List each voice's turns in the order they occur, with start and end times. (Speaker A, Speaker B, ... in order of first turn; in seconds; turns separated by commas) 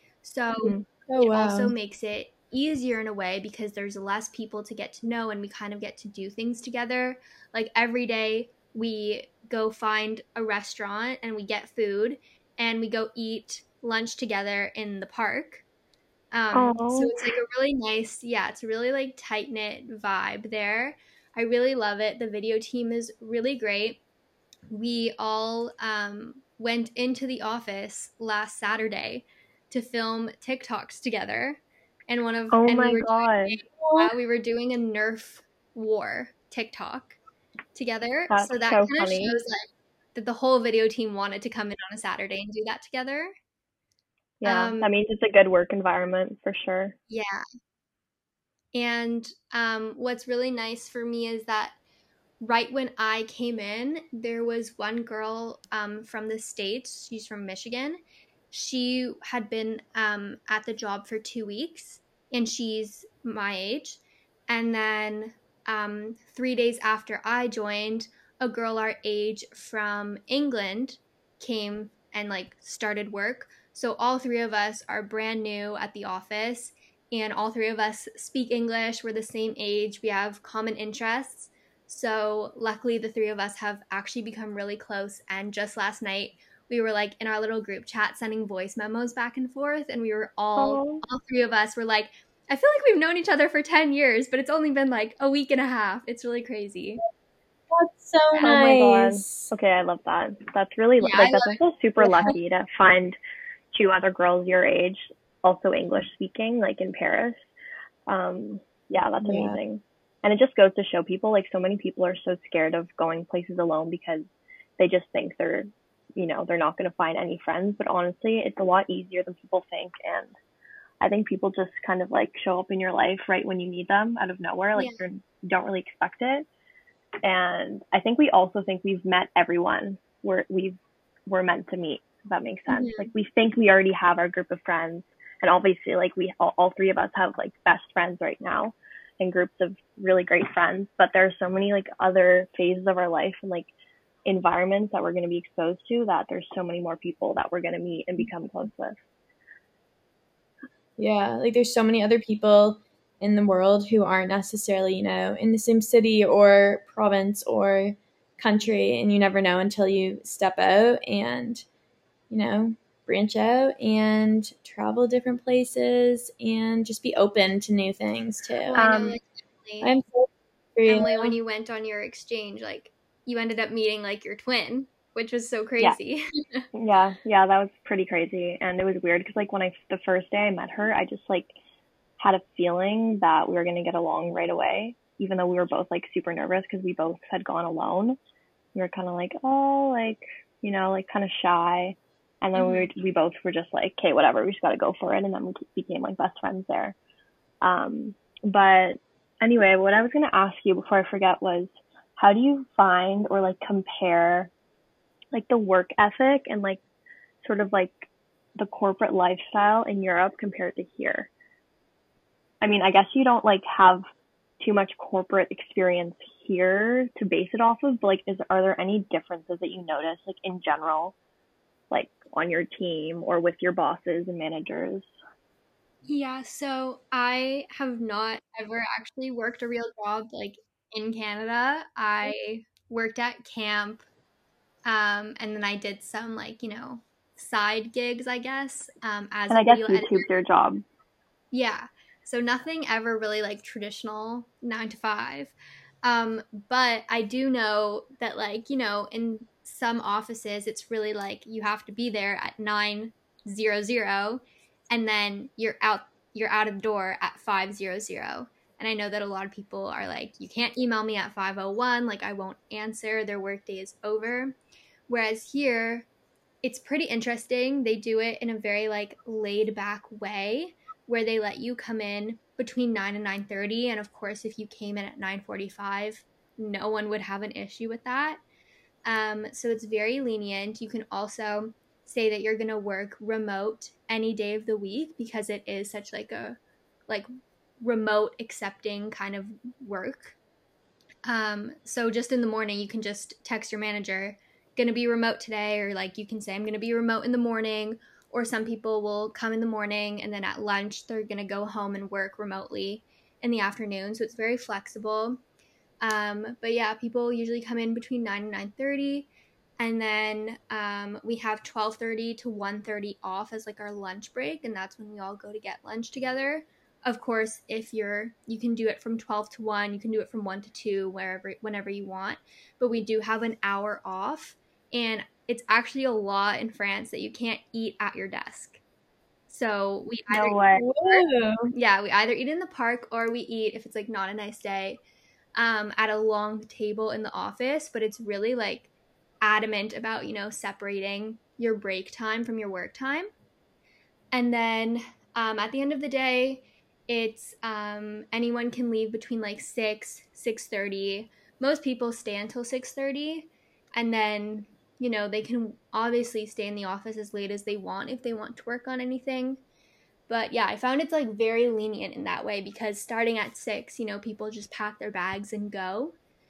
Speaker A: 0.2-15.7, Speaker B: 1.1-1.7, Speaker A: 16.3-24.0, Speaker C: 16.5-17.3, Speaker A: 24.7-37.2, Speaker C: 32.5-33.6, Speaker B: 33.8-34.1, Speaker A: 37.8-43.4, Speaker C: 38.3-39.4, Speaker C: 44.4-47.0, Speaker A: 44.5-44.9, Speaker A: 47.1-47.4, Speaker A: 48.7-51.8, Speaker A: 52.4-58.0, Speaker A: 58.5-97.0, Speaker C: 90.6-91.0, Speaker B: 97.7-99.5, Speaker C: 98.3-103.2, Speaker A: 101.0-102.3, Speaker C: 103.7-107.5, Speaker C: 108.1-120.3, Speaker B: 109.2-109.6, Speaker C: 121.0-126.5, Speaker A: 124.8-125.0, Speaker C: 127.2-143.7, Speaker A: 132.7-133.1, Speaker C: 144.2-149.0, Speaker B: 151.0-161.7, Speaker B: 162.3-168.8, Speaker A: 168.7-169.9, Speaker C: 168.7-169.2, Speaker B: 169.8-171.3, Speaker A: 170.9-176.7, Speaker C: 176.7-181.5, Speaker C: 182.2-188.2, Speaker C: 188.8-197.0, Speaker A: 192.6-192.9, Speaker C: 197.6-204.5, Speaker C: 205.3-206.8, Speaker C: 207.4-211.3, Speaker C: 212.6-214.1, Speaker C: 214.6-221.2, Speaker C: 221.9-225.1, Speaker A: 226.1-234.1, Speaker A: 234.9-240.3, Speaker C: 239.5-240.8, Speaker A: 241.5-264.6, Speaker A: 265.1-266.1, Speaker A: 266.6-278.4, Speaker A: 279.1-286.6, Speaker A: 287.8-290.4, Speaker A: 291.2-305.4, Speaker A: 306.0-328.8, Speaker A: 329.5-335.0, Speaker C: 330.3-330.8, Speaker B: 330.8-331.7, Speaker A: 335.6-338.9, Speaker A: 339.4-343.3, Speaker A: 344.3-359.6, Speaker A: 360.3-366.1